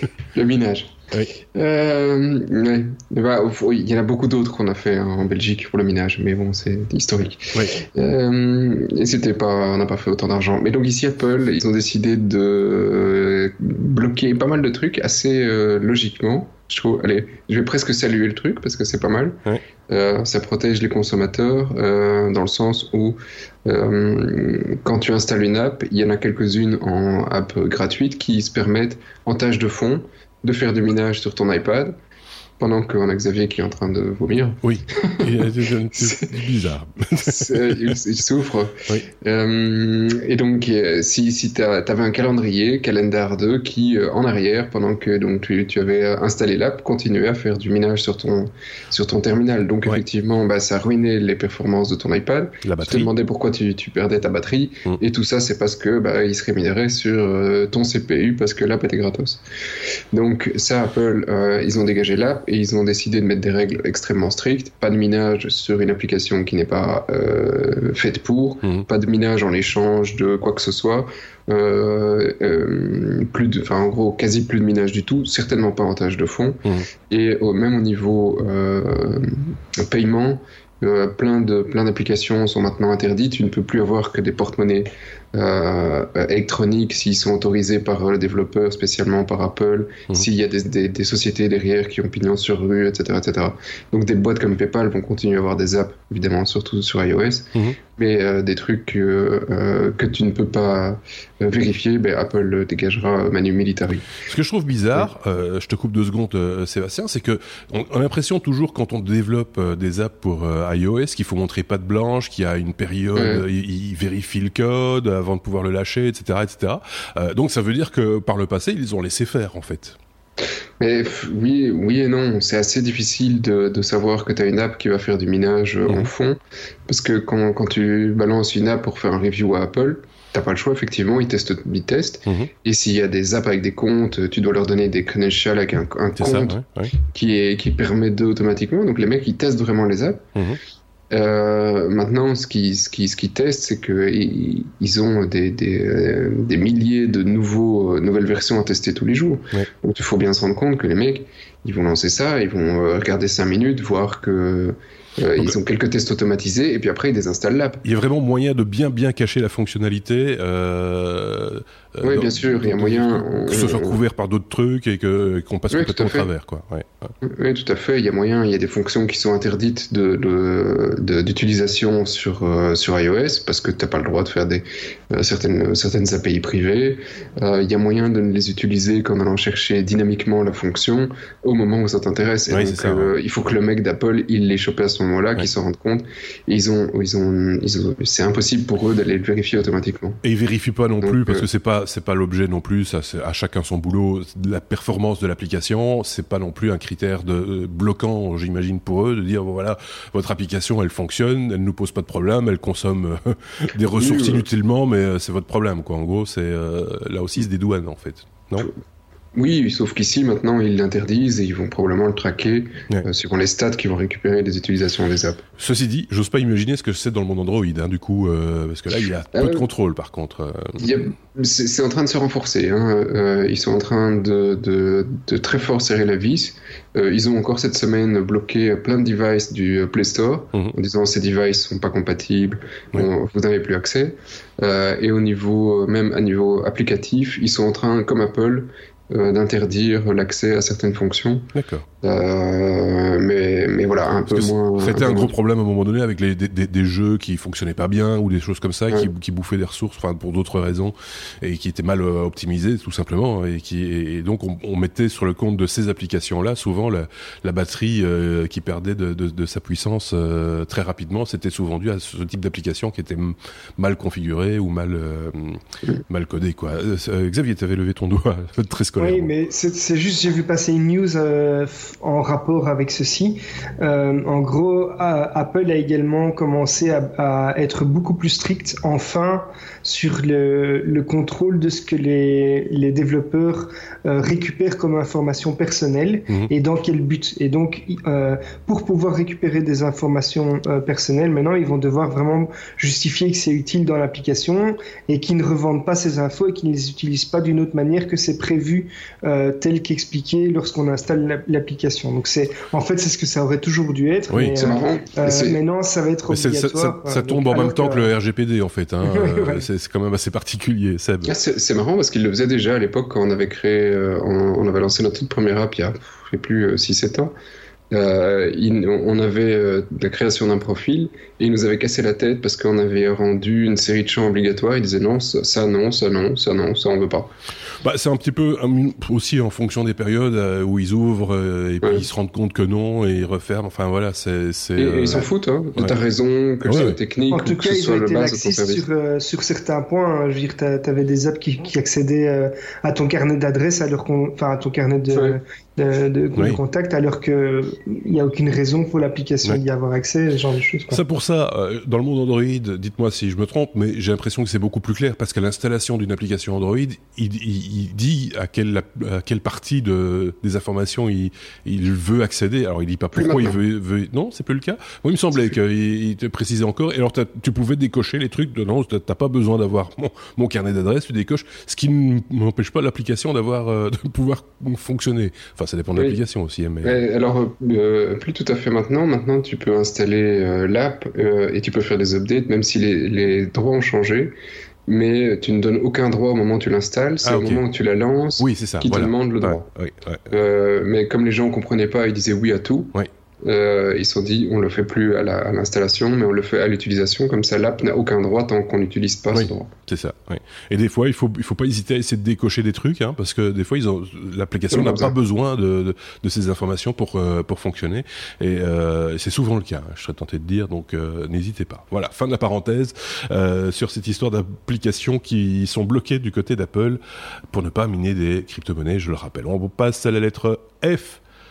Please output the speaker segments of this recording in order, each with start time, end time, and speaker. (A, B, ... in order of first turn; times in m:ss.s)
0:00.3-0:31.9 A
0:32.6-0:35.4 A
0:34.6-0:37.9 B
0:36.0-0:36.3 A
0:37.2-0:59.4 A
0:52.6-0:53.1 B
1:00.1-1:44.1 A
1:44.2-2:00.0 B
1:53.2-1:53.4 A
2:00.8-2:20.2 A
2:12.2-2:12.5 B
2:16.2-2:16.9 B
2:20.3-2:20.6 B
2:21.1-2:37.8 A
2:37.8-2:47.1 B
2:42.0-2:44.0 A
2:45.7-2:46.3 A
2:47.2-3:10.2 A
3:02.5-3:03.1 B
3:10.2-3:28.7 B
3:11.0-3:11.4 A
3:24.0-3:24.4 A
3:29.3-3:35.4 A
3:35.6-3:40.9 B
3:39.3-3:39.6 A
3:40.8-4:05.3 A
4:01.5-4:01.8 B
4:04.3-4:29.3 B
4:29.0-5:08.1 C
5:04.3-5:04.6 B
5:04.6-5:05.6 A
5:06.3-5:11.3 B
5:09.0-5:09.6 C
5:11.2-5:17.3 A
5:17.9-5:27.3 A
5:27.8-5:35.2 B
5:34.8-5:38.8 A
5:36.6-5:37.0 B
5:37.3-5:51.0 C
5:45.1-5:45.4 A
5:50.9-6:17.0 B
6:03.2-6:03.6 A
6:16.8-6:24.3 A
6:24.9-6:29.7 A
6:27.2-6:27.6 B
6:28.4-6:30.2 B
6:30.3-6:39.7 A
6:39.3-6:57.0 B
6:44.7-6:45.1 A
6:57.5-7:01.2 B